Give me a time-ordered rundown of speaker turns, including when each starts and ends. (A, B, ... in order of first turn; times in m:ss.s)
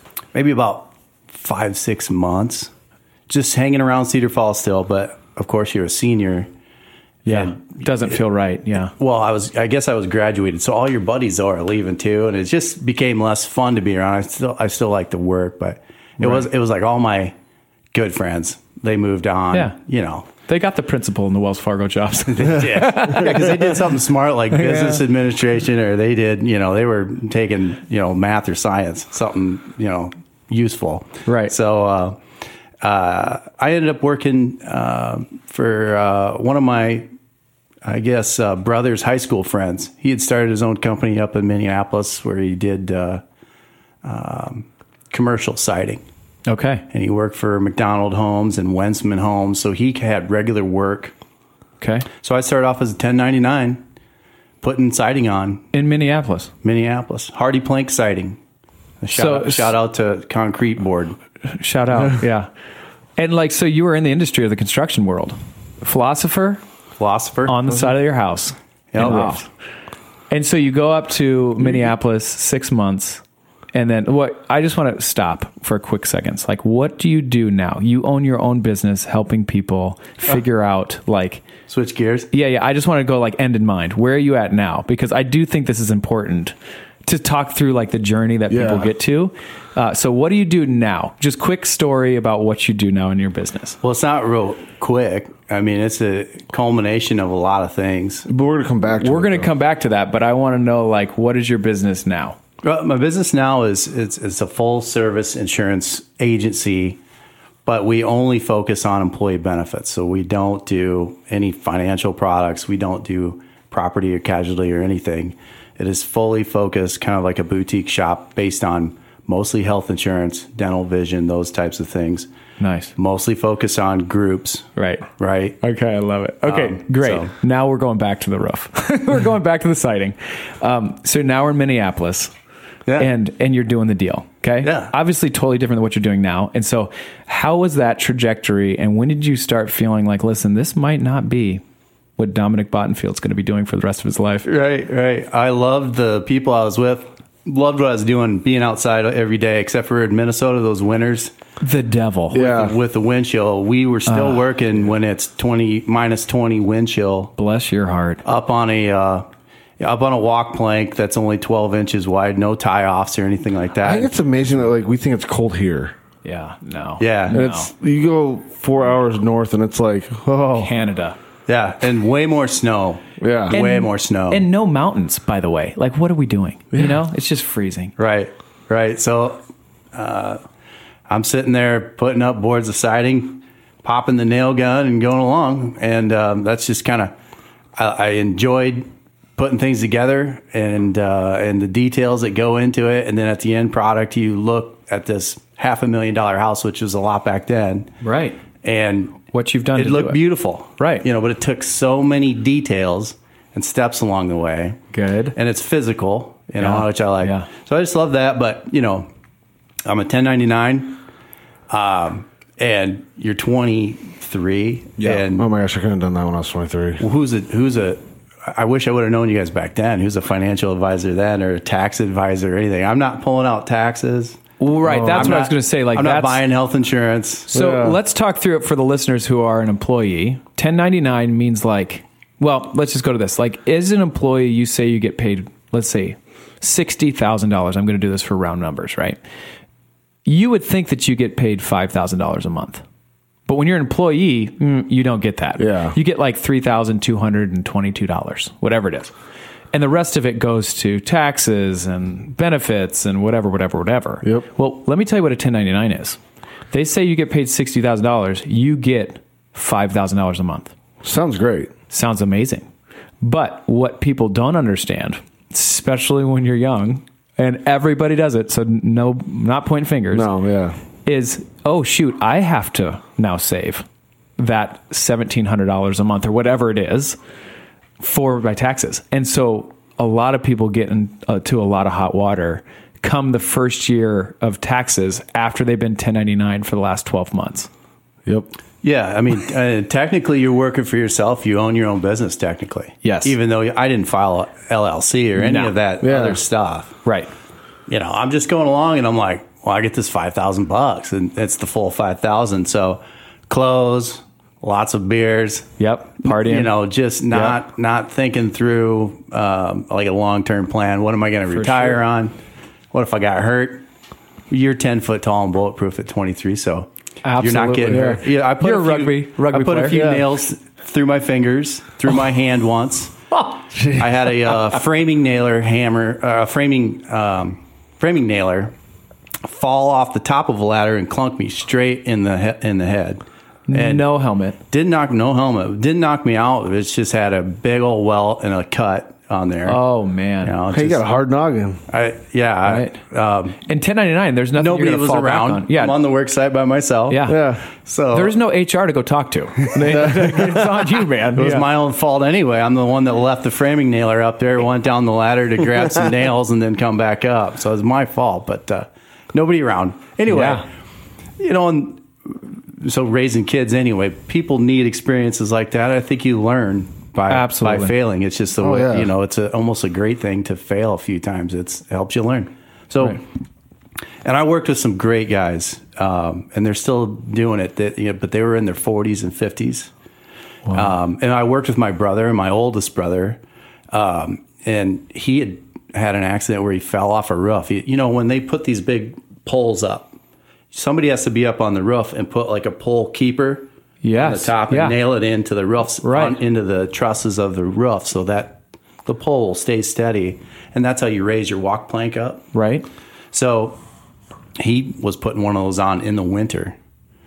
0:00.3-0:02.7 A
0:03.3-0:06.5 A
0:07.3-0:08.2 A
0:07.3-0:08.9 B
0:08.9-0:17.4 A
0:17.9-0:20.3 A
0:20.5-0:23.8 B
0:22.3-0:32.2 A
0:24.5-0:25.0 B
0:31.2-0:31.5 B
0:32.8-0:37.1 A
0:37.8-0:43.2 A
0:44.0-0:46.0 A
0:46.5-0:46.8 B
0:46.9-0:51.1 A
0:51.8-0:52.1 B
0:52.2-0:53.8 A
0:54.6-0:55.7 A
0:55.7-0:56.5 B
0:56.6-0:58.4 A
0:59.0-1:01.2 A
0:59.1-0:59.7 B
1:01.5-1:02.5 B
1:03.2-1:06.6 B
1:07.0-1:07.6 A
1:07.5-1:09.4 B
1:08.9-1:09.5 A
1:10.3-1:13.2 B
1:13.7-1:21.4 B
1:21.7-1:22.3 A
1:22.3-1:26.6 B
1:27.1-1:33.8 B
1:28.5-1:28.9 C
1:33.8-1:38.3 A
1:38.3-1:39.5 C
1:39.0-1:42.4 B
1:42.6-1:47.0 A
1:47.6-2:02.3 A
2:02.6-2:02.9 B
2:03.0-2:05.6 A
2:04.8-2:05.1 B
2:05.6-2:12.3 B
2:06.4-2:07.3 A
2:13.0-2:21.6 B
2:14.6-2:14.9 A
2:22.2-2:24.5 B
2:24.4-2:31.3 A
2:31.6-2:32.5 B
2:32.3-2:32.8 C
2:32.3-2:37.3 A
2:34.1-2:34.4 B
2:37.4-2:38.2 B
2:38.2-2:39.3 A
2:39.8-2:44.1 A
2:43.8-2:45.9 C
2:46.2-2:47.7 B
2:47.0-2:47.4 A
2:47.3-2:50.7 C
2:50.6-2:51.2 B
2:51.5-2:54.4 A
2:53.2-2:53.6 C
2:53.5-2:57.9 B
2:58.0-2:59.4 A
2:59.9-3:00.4 A
3:01.1-3:07.1 A
3:07.8-3:18.0 A
3:18.0-3:18.4 B
3:18.6-3:19.2 A
3:19.3-3:20.2 B
3:19.8-3:24.8 A
3:20.8-3:21.0 B
3:24.9-3:25.4 B
3:25.3-3:29.1 A
3:26.6-3:27.5 B
3:29.8-3:31.0 A
3:31.7-3:35.5 A
3:35.3-3:37.0 C
3:37.0-3:44.4 A
3:44.6-3:46.4 B
3:44.8-3:45.4 C
3:44.9-3:47.5 A
3:47.5-3:59.2 B
3:47.5-3:48.0 C
4:00.3-4:02.8 B
4:03.5-4:09.1 B
4:05.6-4:06.0 C
4:09.7-4:16.2 B
4:16.7-4:20.7 B
4:21.0-4:21.7 C
4:21.9-4:22.7 B
4:23.2-4:30.3 B
4:30.1-4:30.8 C
4:31.1-4:33.9 B
4:34.4-4:37.2 B
4:38.0-4:47.7 B
4:48.3-4:48.5 C
4:48.8-4:57.0 A
4:53.0-4:53.3 B
4:55.4-4:55.7 B
4:56.0-4:56.4 C
4:57.0-4:57.3 B
4:57.9-5:12.4 A
5:05.8-5:06.7 B
5:07.3-5:07.6 B
5:11.5-5:12.0 B
5:12.9-5:13.8 A
5:14.5-5:16.9 A
5:17.2-5:20.2 B
5:17.4-5:23.2 A
5:17.9-5:18.2 C
5:19.9-5:20.2 C
5:23.8-5:28.7 A
5:29.4-5:34.1 A
5:33.7-5:34.6 B
5:34.7-5:39.8 A
5:39.7-5:40.6 B
5:40.4-5:41.0 A
5:40.7-5:41.8 C
5:41.9-5:43.6 A
5:42.6-5:43.0 B
5:43.7-5:46.0 B
5:44.6-5:48.4 A
5:47.1-5:47.5 B
5:47.3-5:47.6 C
5:48.1-5:51.6 B
5:49.8-5:50.7 C
5:51.4-6:00.7 A
6:00.3-6:00.7 B
6:01.4-6:13.2 A
6:07.3-6:07.9 B
6:08.6-6:09.1 C
6:14.2-6:19.9 A
6:20.7-6:20.9 B
6:20.7-6:23.4 A
6:23.9-6:30.2 A
6:30.7-6:42.5 A
6:34.0-6:35.0 B
6:36.0-6:36.4 B
6:42.5-6:42.9 B
6:43.3-6:43.8 A
6:44.6-6:46.8 A